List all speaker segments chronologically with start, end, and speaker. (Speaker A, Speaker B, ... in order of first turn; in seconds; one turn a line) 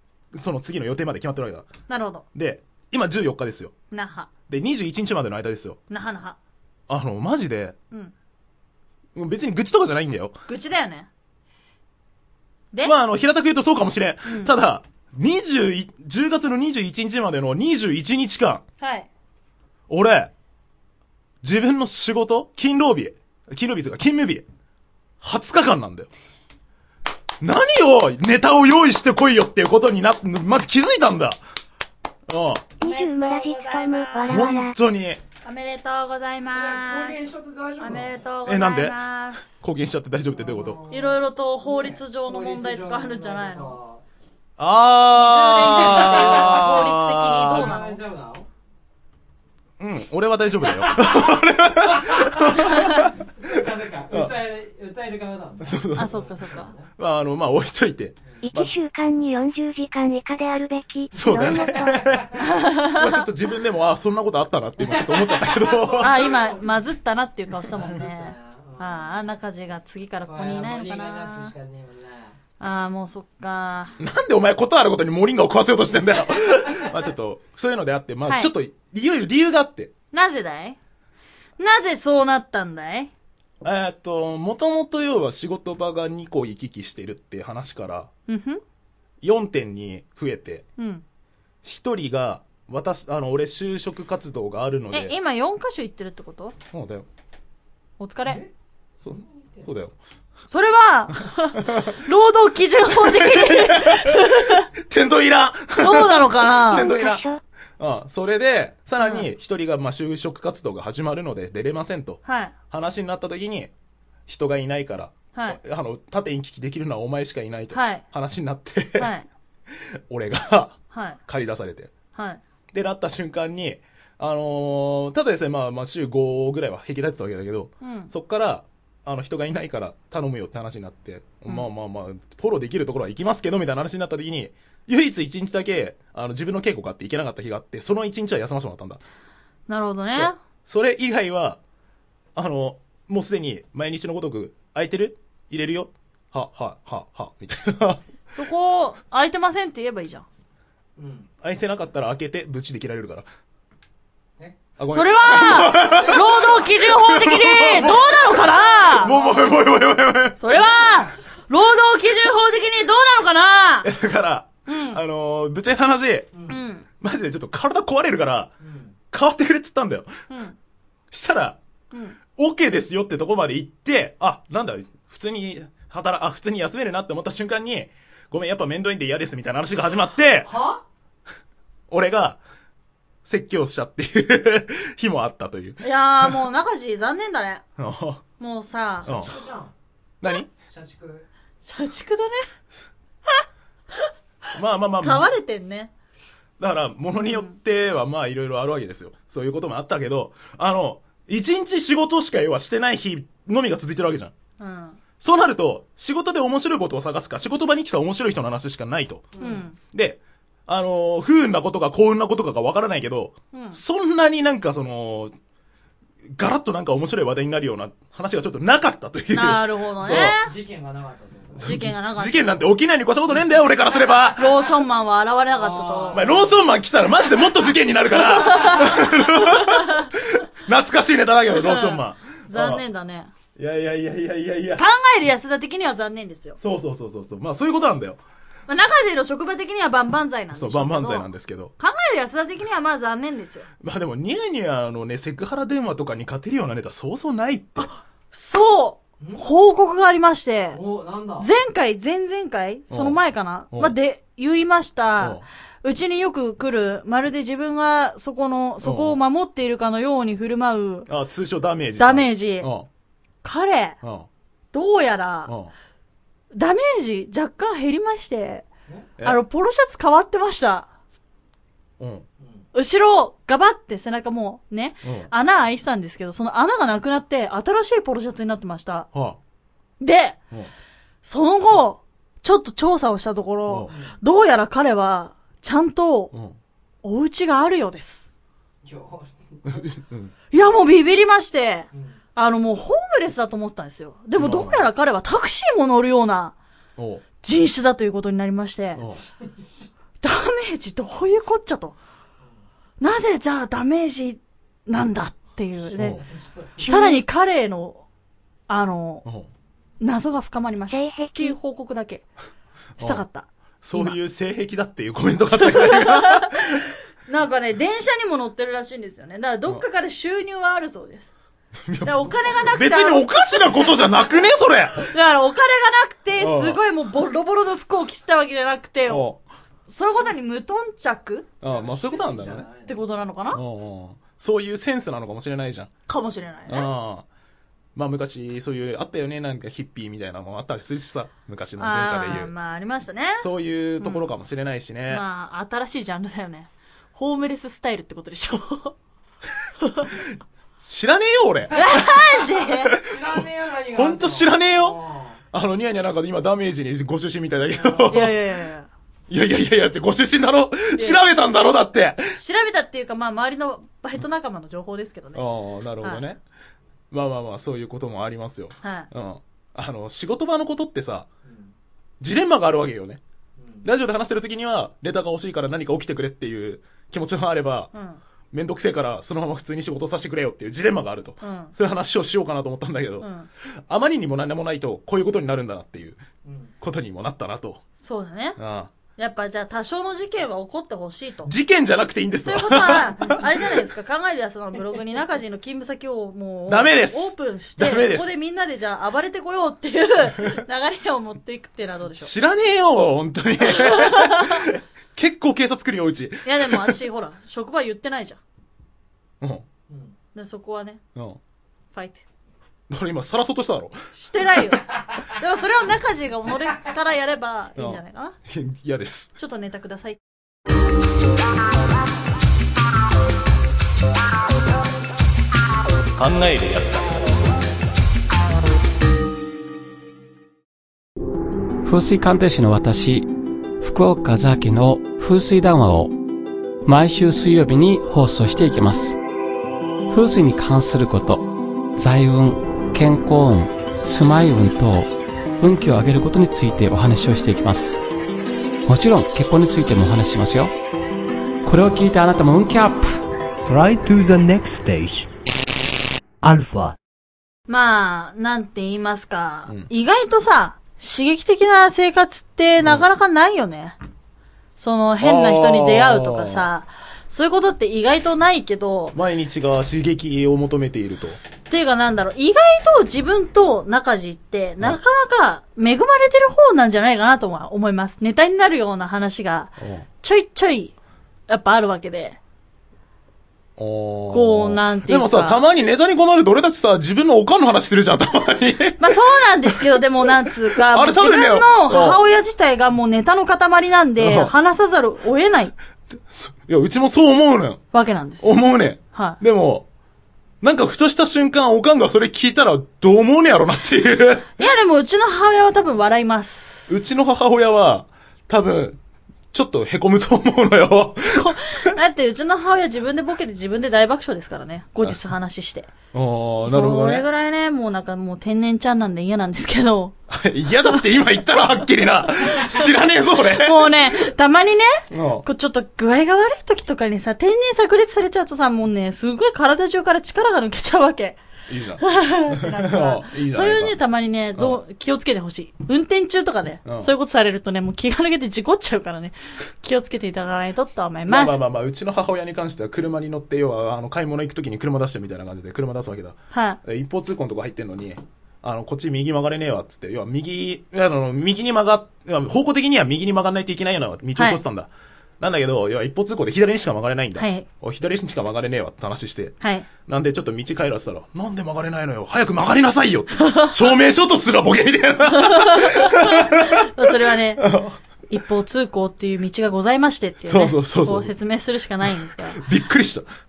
Speaker A: 0.3-1.7
Speaker B: 1.9-2.2
Speaker A: 2.3-3.7
Speaker B: 3.9-4.3
Speaker A: 4.5-5.8
Speaker B: 5.9-6.4
Speaker A: 6.9-7.8
Speaker A: 9.1-10.4
Speaker B: 10.5-11.1
Speaker A: 12.8-18.6
Speaker B: 14.2-14.5
Speaker B: 18.8-19.1
Speaker A: 19.9-20.3
Speaker A: 21.4-24.4
Speaker A: 25.2-26.1
Speaker A: 27.4-31.4
Speaker A: 32.3-32.7
Speaker B: 32.8-34.5
Speaker C: 32.8-34.7
Speaker A: 34.3-35.2
Speaker B: 35.4-37.2
Speaker D: 36.5-38.2
Speaker B: 37.8-39.4
Speaker A: 38.5-40.8
Speaker D: 40.3-44.0
Speaker B: 40.9-43.8
Speaker A: 44.6-47.8
Speaker B: 45.1-48.0
Speaker D: 45.6-48.5
Speaker A: 49.8-53.6
Speaker D: 50.7-56.9
Speaker B: 52.7-53.0
Speaker A: 55.6-56.2
Speaker B: 56.0-56.7
Speaker A: 57.0-58.7
Speaker C: 58.4-62.0
Speaker A: 61.1-66.3
Speaker D: 61.2-62.5
Speaker B: 62.3-63.2
Speaker D: 64.8-66.8
Speaker B: 66.0-71.5
Speaker D: 67.7-69.2
Speaker D: 70.3-72.4
Speaker B: 72.6-74.0
Speaker A: 74.0-79.9
Speaker D: 76.3-76.9
Speaker B: 78.2-78.5
Speaker B: 80.1-80.8
Speaker B: 81.6-83.1
Speaker A: 83.6-88.1
Speaker B: 88.3-88.6
Speaker A: 89.2-90.7
Speaker B: 90.8-91.0
Speaker A: 91.6-95.2
Speaker B: 94.9-96.5
Speaker A: 96.7-97.1
Speaker B: 98.0-98.4
Speaker D: 98.2-98.5
Speaker D: 99.0-99.7
Speaker A: 99.0-99.9
Speaker B: 100.5-104.7
Speaker A: 101.5-102.0
Speaker A: 102.9-107.2
Speaker B: 105.8-106.9
Speaker C: 106.7-107.4
Speaker A: 107.8-113.7
Speaker B: 109.0-109.3
Speaker B: 112.2-112.5
Speaker A: 114.3-119.1
Speaker B: 115.3-115.6
Speaker B: 117.7-118.0
Speaker B: 119.0-119.3
Speaker A: 119.7-121.9
Speaker B: 120.9-121.2
Speaker B: 122.1-122.4
Speaker A: 122.7-139.0
Speaker B: 127.8-128.1
Speaker B: 139.7-140.4
Speaker A: 140.1-141.6
Speaker A: 142.3-148.0
Speaker B: 148.3-150.2
Speaker D: 151.0-151.3
Speaker A: 151.4-153.2
Speaker A: 154.8-160.7
Speaker B: 154.9-159.3
Speaker D: 155.7-156.5
Speaker B: 160.4-163.9
Speaker A: 163.8-166.3
Speaker B: 164.7-165.0
Speaker D: 166.3-166.6
Speaker B: 166.5-166.8
Speaker A: 167.0-168.5
Speaker D: 168.6-168.9
Speaker A: 169.1-170.2
Speaker B: 170.3-170.6
Speaker A: 171.1-171.6
Speaker B: 171.9-172.2
Speaker A: 172.3-180.5
Speaker D: 180.4-180.8
Speaker A: 181.9-182.4
Speaker A: 183.2-186.4
Speaker B: 185.8-187.6
Speaker A: 187.8-188.2
Speaker B: 188.4-189.3
Speaker A: 189.0-189.3
Speaker D: 189.1-189.7
Speaker A: 190.2-190.5
Speaker D: 190.7-191.3
Speaker B: 191.6-192.4
Speaker A: 194.5-195.3
Speaker B: 195.0-195.9
Speaker A: 196.6-204.3
Speaker B: 197.2-197.5
Speaker B: 204.6-205.0
Speaker A: 205.2-209.3
Speaker D: 209.3-209.7
Speaker B: 209.4-209.8
Speaker A: 209.9-215.3
Speaker B: 213.5-213.8
Speaker A: 216.3-220.3
Speaker B: 219.3-220.5
Speaker D: 220.0-221.8
Speaker A: 221.6-224.4
Speaker B: 221.6-222.6
Speaker B: 224.3-226.3
Speaker D: 225.5-226.6
Speaker A: 226.1-232.8
Speaker B: 228.1-230.1
Speaker B: 231.6-233.3
Speaker A: 233.6-234.8
Speaker B: 234.8-236.6
Speaker A: 236.6-238.2
Speaker B: 238.7-243.7
Speaker A: 240.5-241.7
Speaker A: 243.8-247.9
Speaker B: 247.8-250.8
Speaker D: 250.7-251.5
Speaker B: 251.4-261.1
Speaker A: 252.9-253.2
Speaker A: 258.8-259.2
Speaker A: 261.1-262.9
Speaker B: 262.0-262.7
Speaker B: 263.4-264.0
Speaker A: 264.0-264.3
Speaker B: 264.7-265.5
Speaker A: 265.5-265.7
Speaker B: 266.5-268.6
Speaker B: 269.2-270.9
Speaker A: 272.0-272.2
Speaker B: 272.7-279.1
Speaker A: 275.0-275.3
Speaker A: 279.1-279.4
Speaker B: 280.0-280.4
Speaker B: 281.2-286.3
Speaker A: 283.7-283.9
Speaker D: 283.9-284.2
Speaker A: 286.3-286.6
Speaker B: 287.0-288.2
Speaker D: 288.8-289.9
Speaker A: 289.6-290.3
Speaker B: 290.5-296.5
Speaker D: 291.9-292.2
Speaker A: 294.4-294.9
Speaker A: 297.0-297.2
Speaker B: 297.4-299.0
Speaker A: 298.9-299.2
Speaker D: 299.2-299.7
Speaker B: 300.2-301.9
Speaker B: 303.0-306.2
Speaker A: 305.9-306.2
Speaker D: 305.9-306.9
Speaker B: 306.8-308.0
Speaker B: 308.7-309.3
Speaker B: 310.0-312.2
Speaker C: 310.9-311.6
Speaker A: 313.0-313.2
Speaker B: 313.0-314.2
Speaker A: 313.8-316.8
Speaker B: 315.5-321.3
Speaker A: 321.8-325.1
Speaker B: 322.0-323.6
Speaker B: 325.1-329.3
Speaker A: 326.4-326.8
Speaker A: 329.1-329.4
Speaker B: 329.9-331.5
Speaker A: 331.6-332.7
Speaker D: 331.6-333.1
Speaker B: 332.9-333.6
Speaker A: 333.5-335.9
Speaker B: 336.1-336.9
Speaker A: 336.7-337.2
Speaker A: 337.9-342.5
Speaker B: 341.8-343.5
Speaker A: 343.4-345.2
Speaker B: 344.0-344.2
Speaker B: 345.1-348.9
Speaker B: 349.8-350.1
Speaker A: 350.1-352.2
Speaker B: 351.7-352.9
Speaker A: 352.8-355.0
Speaker D: 353.0-355.4
Speaker A: 355.5-358.4
Speaker B: 358.0-358.9
Speaker A: 359.3-362.4
Speaker B: 360.9-361.2
Speaker B: 362.4-365.4
Speaker A: 365.3-366.4
Speaker A: 367.1-371.3
Speaker B: 368.8-369.1
Speaker D: 371.4-371.7
Speaker A: 372.2-373.2
Speaker D: 373.6-373.9
Speaker A: 373.8-377.9
Speaker B: 377.9-378.2
Speaker A: 378.5-383.3
Speaker B: 381.4-381.7
Speaker B: 383.2-383.5
Speaker A: 383.9-386.2
Speaker D: 386.4-386.7
Speaker A: 386.8-387.8
Speaker B: 388.0-388.6
Speaker A: 388.6-388.9
Speaker B: 389.2-391.5
Speaker A: 391.4-393.4
Speaker B: 392.4-402.3
Speaker A: 396.7-398.4
Speaker A: 402.2-407.0
Speaker B: 403.6-404.6
Speaker B: 406.4-408.4
Speaker D: 409.9-410.1
Speaker B: 410.3-411.0
Speaker B: 411.9-412.2
Speaker A: 412.9-414.0
Speaker B: 414.1-418.3
Speaker A: 417.8-419.4
Speaker B: 419.4-420.2
Speaker A: 426.1-427.3
Speaker E: 431.8-436.1
Speaker E: 436.9-439.2
Speaker E: 440.1-448.0
Speaker E: 448.9-450.7
Speaker E: 451.6-453.2
Speaker F: 453.6-455.3
Speaker F: 456.4-456.9
Speaker B: 457.7-464.0
Speaker A: 462.8-463.1
Speaker B: 464.8-469.2
Speaker A: 465.2-466.7
Speaker A: 469.1-471.4
Speaker B: 471.3-480.9
Speaker A: 479.8-480.1
Speaker B: 481.5-482.4
Speaker A: 483.8-492.2
Speaker B: 484.3-485.6
Speaker B: 489.0-495.7
Speaker A: 494.2-494.5
Speaker A: 496.1-497.8
Speaker B: 497.9-499.4
Speaker A: 498.4-499.9
Speaker A: 500.6-504.5
Speaker B: 504.6-506.9
Speaker A: 506.9-509.0
Speaker A: 509.5-511.9
Speaker B: 511.3-515.9
Speaker A: 516.1-517.2
Speaker B: 516.6-520.1
Speaker A: 520.3-524.3
Speaker B: 522.4-531.4
Speaker A: 525.1-525.5
Speaker A: 531.7-534.0
Speaker B: 532.0-541.6
Speaker A: 536.8-537.1
Speaker A: 541.3-568.0
Speaker B: 546.5-546.8
Speaker B: 554.4-554.6
Speaker B: 557.4-557.6
Speaker B: 559.6-559.9
Speaker B: 563.4-563.7
Speaker B: 565.3-567.7
Speaker B: 568.3-572.6
Speaker A: 570.4-571.3
Speaker A: 572.5-573.3